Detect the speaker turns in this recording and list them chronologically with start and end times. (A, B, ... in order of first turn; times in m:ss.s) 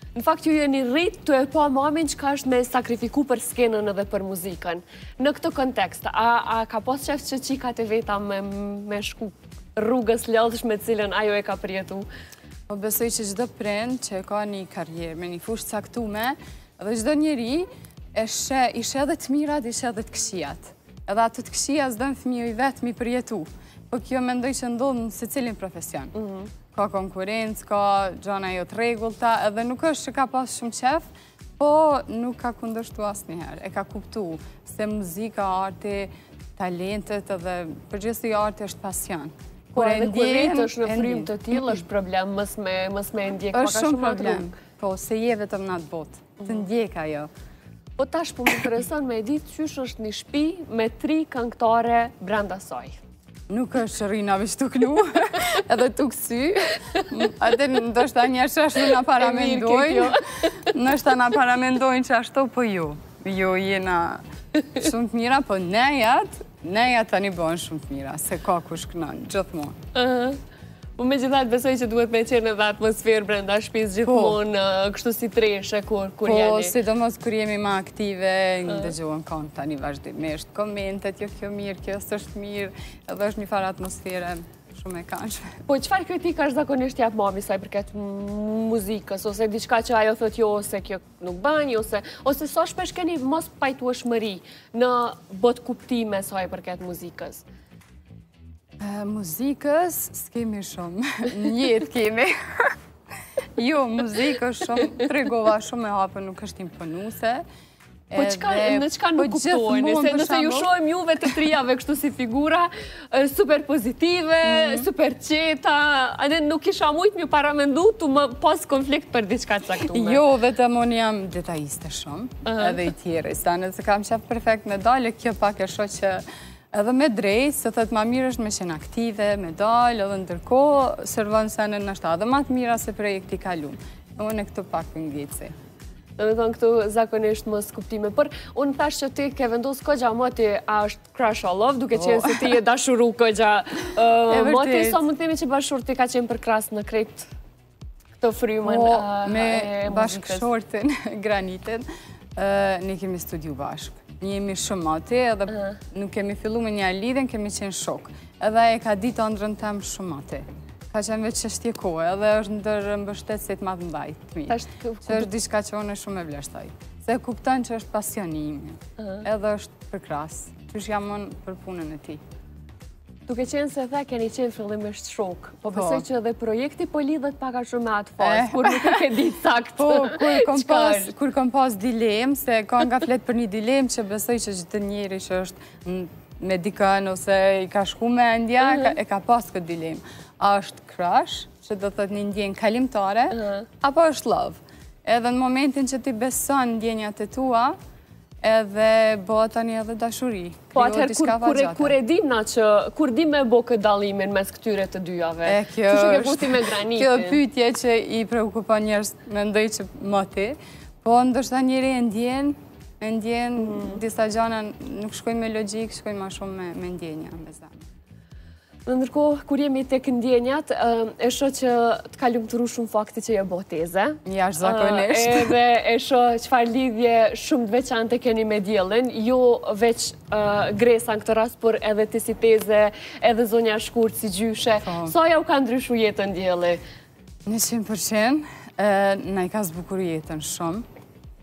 0:00.2-0:12.1 A
0:12.7-0:26.1 B
0:26.2-0:26.5 A
0:26.7-0:31.1 B
0:31.6-0:41.7 B
0:39.7-0:44.5 A
0:43.5-0:47.3 B
0:48.0-0:53.0 A
0:53.5-1:04.2 B
0:59.2-1:00.5 A
1:04.8-1:09.8 B
1:09.9-1:10.4 A
1:11.0-1:16.8 A
1:14.0-1:14.4 B
1:16.2-1:25.5 B
1:18.7-1:18.9 A
1:25.7-1:37.4 A
1:38.8-1:42.8 B
1:43.6-1:47.4 B
1:48.1-1:50.7 B
1:48.2-2:00.2 A
1:54.4-1:54.9 B
1:59.8-2:15.5 B
2:02.4-2:02.9 A
2:16.2-2:27.3 A
2:22.0-2:22.6 B
2:24.3-2:25.0 B
2:28.2-2:30.5 A
2:28.6-2:52.2 B
2:35.5-2:35.8 A
2:44.5-2:45.3 A
2:49.0-2:49.2 A
2:53.3-3:01.1 A
2:55.7-2:56.0 B
2:58.2-2:59.1 B
2:59.8-3:17.8 B
3:08.6-3:09.0 A
3:13.3-3:13.7 A
3:18.4-3:22.0 B
3:20.7-3:27.4 A
3:25.5-3:37.8 B
3:33.6-3:34.0 A
3:38.9-3:56.8 A
3:44.2-3:45.6 B
3:54.8-3:55.2 B
3:57.5-4:00.8 B